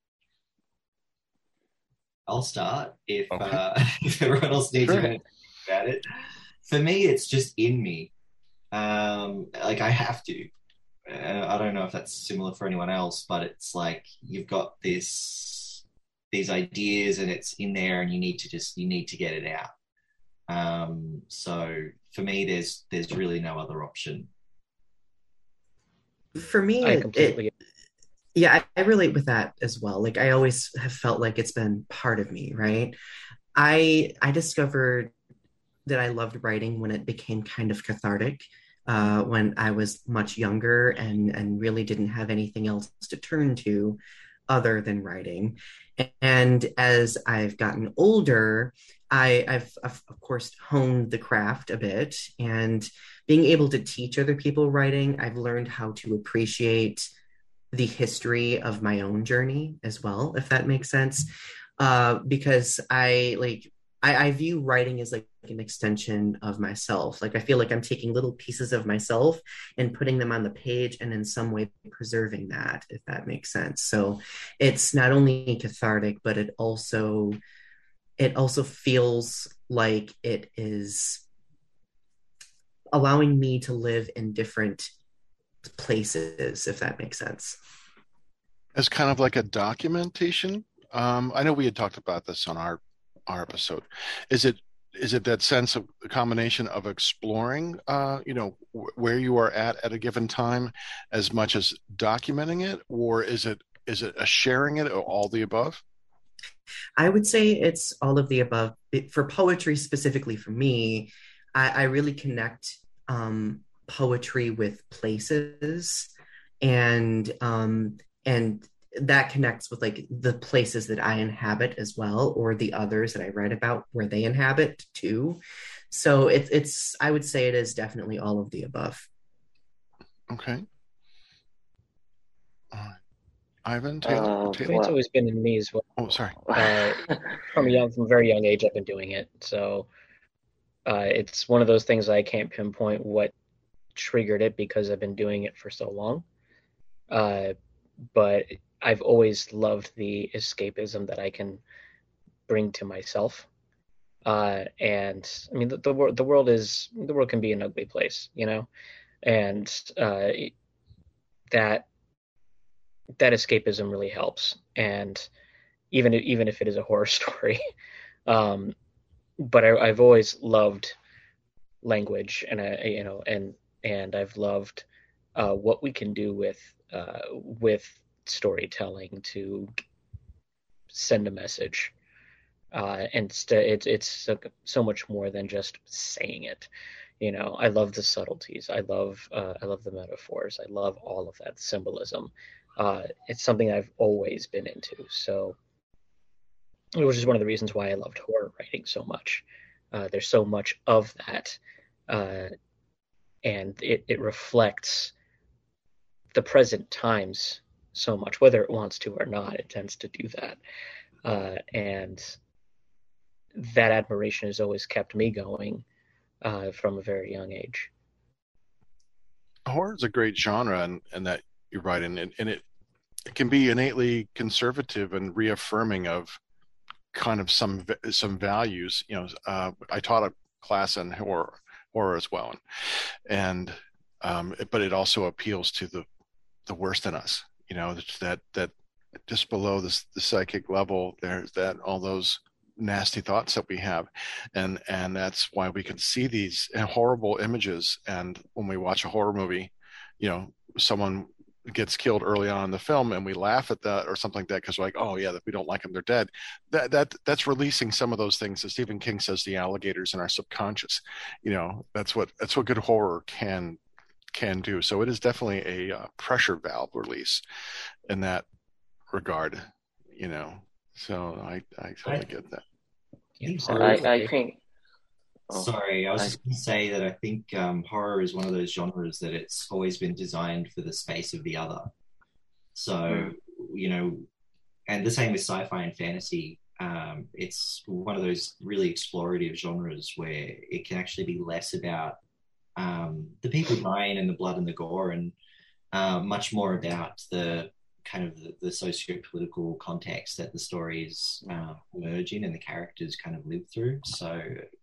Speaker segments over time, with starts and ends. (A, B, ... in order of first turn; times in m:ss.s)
0:02.3-0:06.0 A
0:04.8-0:05.1 B
0:06.7-0:08.1 A
0:08.7-0:10.5 A
0:11.1-0:19.7 A
0:20.5-0:24.3 A
0:26.3-0:27.4 C
0:26.8-0:27.5 D
0:28.3-0:33.0 C
0:33.5-0:35.1 C
0:35.8-0:57.1 C
0:57.7-1:01.3 C
1:01.8-1:17.4 C
1:18.2-1:21.2 C
1:22.9-1:24.9 C
1:25.6-1:27.6 C
1:28.7-1:45.8 B
1:47.0-1:56.1 C
1:56.6-2:05.4 C
2:05.9-2:09.0 C
2:10.3-2:10.6 B
2:12.7-2:13.0 B
2:13.6-2:14.8 B
2:14.0-2:14.9 E
2:14.6-2:15.9 D
2:16.0-2:16.4 B
2:16.5-2:17.1 E
2:16.5-2:19.9 D
2:20.8-2:23.3 D
2:23.9-2:26.2 D
2:27.1-2:27.6 D
2:28.1-2:31.6 D
2:32.5-2:33.5 D
2:34.2-2:38.7 D
2:39.2-2:40.5 D
2:41.5-2:41.9 D
2:43.2-2:45.3 D
2:45.9-2:47.6 D
2:48.2-2:48.7 D
2:49.4-2:51.0 D
2:51.8-2:54.8 D
2:55.4-2:59.7 D
3:00.9-3:01.9 D
3:02.7-3:06.7 D
3:07.2-3:15.6 D
3:17.0-3:22.5 D
3:23.4-3:25.1 D
3:26.3-3:30.6 D
3:31.2-3:32.3 D
3:33.5-3:35.8 D
3:36.4-3:37.9 D
3:39.6-3:42.6 B
3:43.3-3:46.4 B
3:47.1-3:52.6 B
3:53.3-3:56.0 B
3:56.7-3:58.7 B
3:59.3-4:23.8 B
4:24.3-4:27.4 B
4:28.1-4:28.4 B
4:29.1-4:32.6 B
4:33.4-4:34.3 D
4:33.4-4:34.1 A
4:33.6-4:34.6 E
4:35.5-4:36.4 E
4:35.5-4:41.9 A
4:42.7-4:44.2 A
4:43.1-4:43.3 E
4:44.9-4:52.2 A
4:52.8-4:55.3 A
4:55.9-5:04.6 A